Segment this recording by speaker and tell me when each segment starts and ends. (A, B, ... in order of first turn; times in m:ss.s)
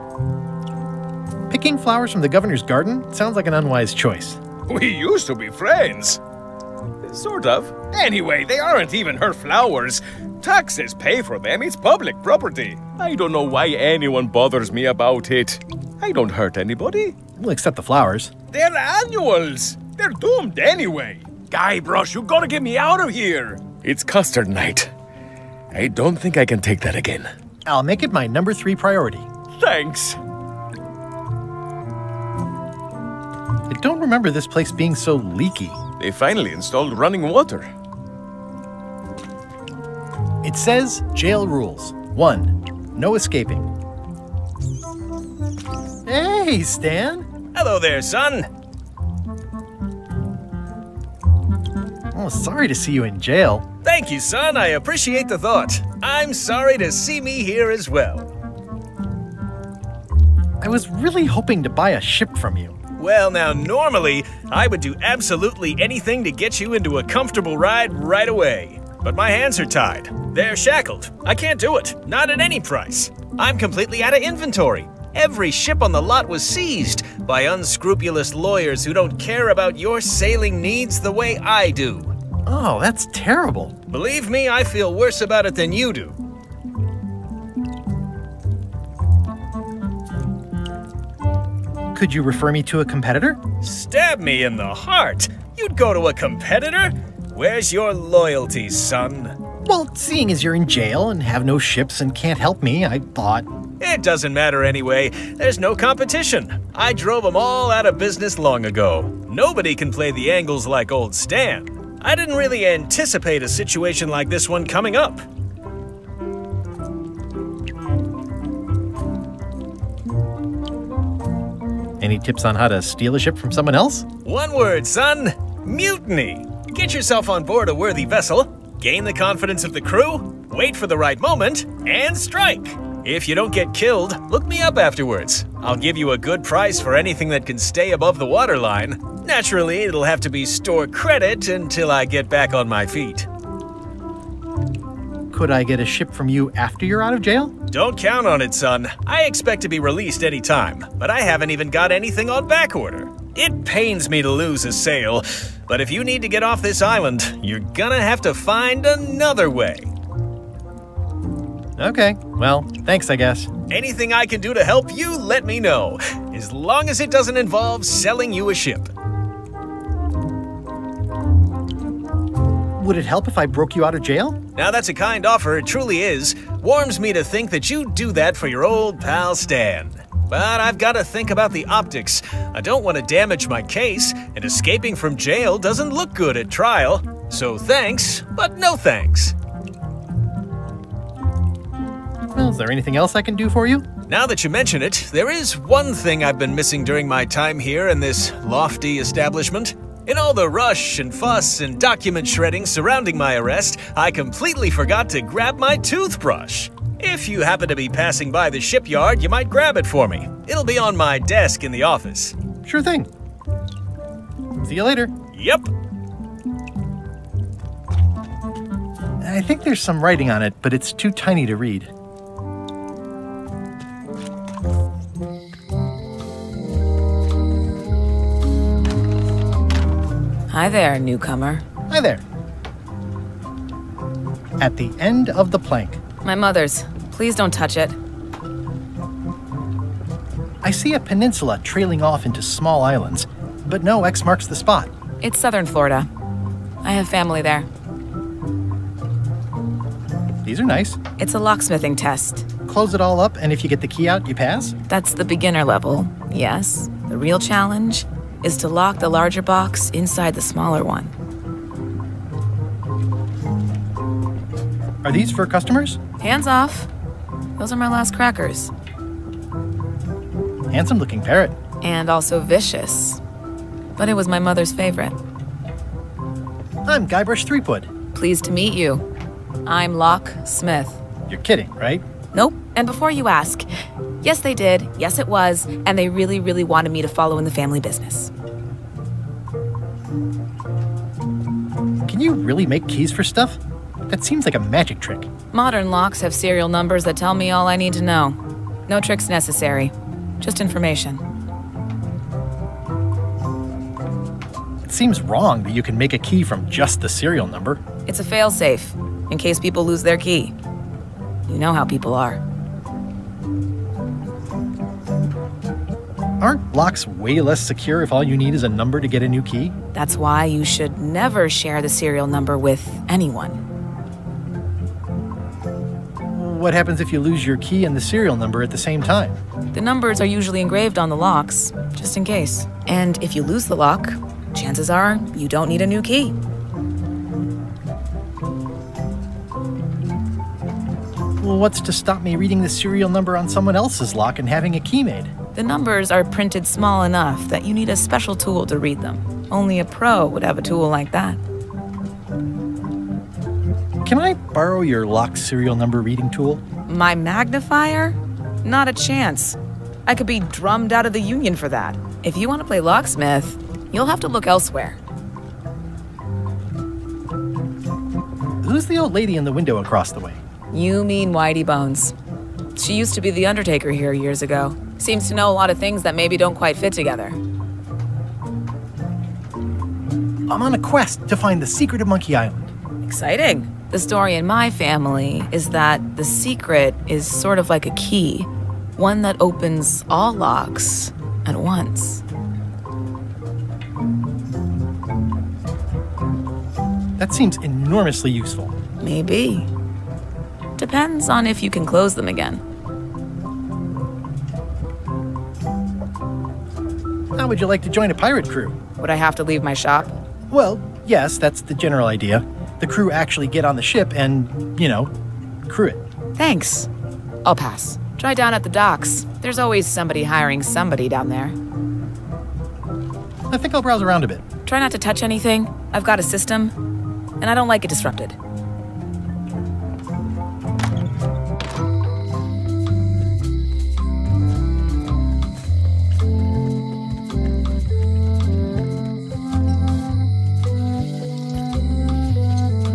0:01.5-0:04.4 A
0:04.7-0:06.2 B
0:07.1-0:17.1 B
0:17.4-0:18.3 A
0:18.5-0:24.8 B
0:25.8-0:27.0 B
0:27.6-0:29.3 A
0:29.6-0:30.1 B
0:33.7-0:35.8 A
0:36.0-0:37.6 B
0:40.4-0:43.7 A
0:46.0-0:47.3 A
0:47.5-0:48.5 C
0:52.1-0:53.6 A
0:53.8-0:58.3 C
1:00.6-1:02.8 A
1:03.0-1:22.1 C
1:22.4-1:23.7 A
1:23.9-1:26.1 C
1:31.9-1:33.4 A
1:33.6-1:39.3 C
1:39.6-1:43.5 A
1:43.8-1:55.2 C
2:02.0-2:04.1 A
2:04.2-2:23.3 C
2:25.3-2:27.5 A
2:27.7-2:39.9 C
2:41.8-2:43.5 A
2:43.7-2:48.9 C
2:52.8-2:54.4 A
2:54.6-3:09.3 C
3:12.3-3:13.9 A
3:14.1-3:32.3 C
3:32.6-3:33.1 A
3:34.6-3:35.1 A
3:35.3-3:35.7 C
3:39.2-3:41.9 A
3:50.5-3:51.6 D
3:51.9-3:52.2 A
3:54.6-3:56.0 A
3:56.2-3:58.0 D
4:00.6-4:04.9 A
4:05.2-4:06.1 D
4:06.8-4:07.7 D
4:10.4-4:11.0 A
4:11.2-4:12.4 D
4:12.6-4:14.7 A
4:14.9-4:21.1 D
4:25.0-4:26.0 A
4:26.2-4:26.9 D
4:27.6-4:28.7 D
4:30.7-4:31.6 A
4:31.8-4:33.2 D
4:34.0-4:35.2 D
4:36.8-4:37.9 A
4:38.1-4:39.0 D
4:39.6-4:41.0 D
4:41.3-4:42.0 A
4:42.3-4:43.7 D
4:44.2-4:48.3 D
4:52.0-4:55.3 A
4:55.5-4:58.4 D
4:58.9-5:01.2 D
5:04.8-5:07.8 A
5:08.0-5:10.5 D
5:11.5-5:12.4 D
5:16.4-5:19.7 A
5:19.9-5:23.6 D
5:26.3-5:29.4 A
5:29.7-5:36.4 D
5:41.4-5:45.3 A
5:45.5-5:51.4 D
5:54.0-5:56.6 A
5:56.9-6:05.0 D
6:08.6-6:10.4 A
6:10.7-6:12.1 D
6:12.8-6:17.4 D
6:20.5-6:22.7 A
6:23.0-6:32.2 D
6:37.2-6:38.7 A
6:39.0-6:39.7 D
6:40.8-6:42.6 D
6:47.3-6:48.8 A
6:49.0-6:50.1 D
6:50.5-6:55.1 A
6:55.6-6:56.0 A
6:56.4-6:56.9 D
6:57.4-7:01.6 D
7:03.5-7:04.4 A
7:04.6-7:06.7 D
7:07.4-7:08.4 D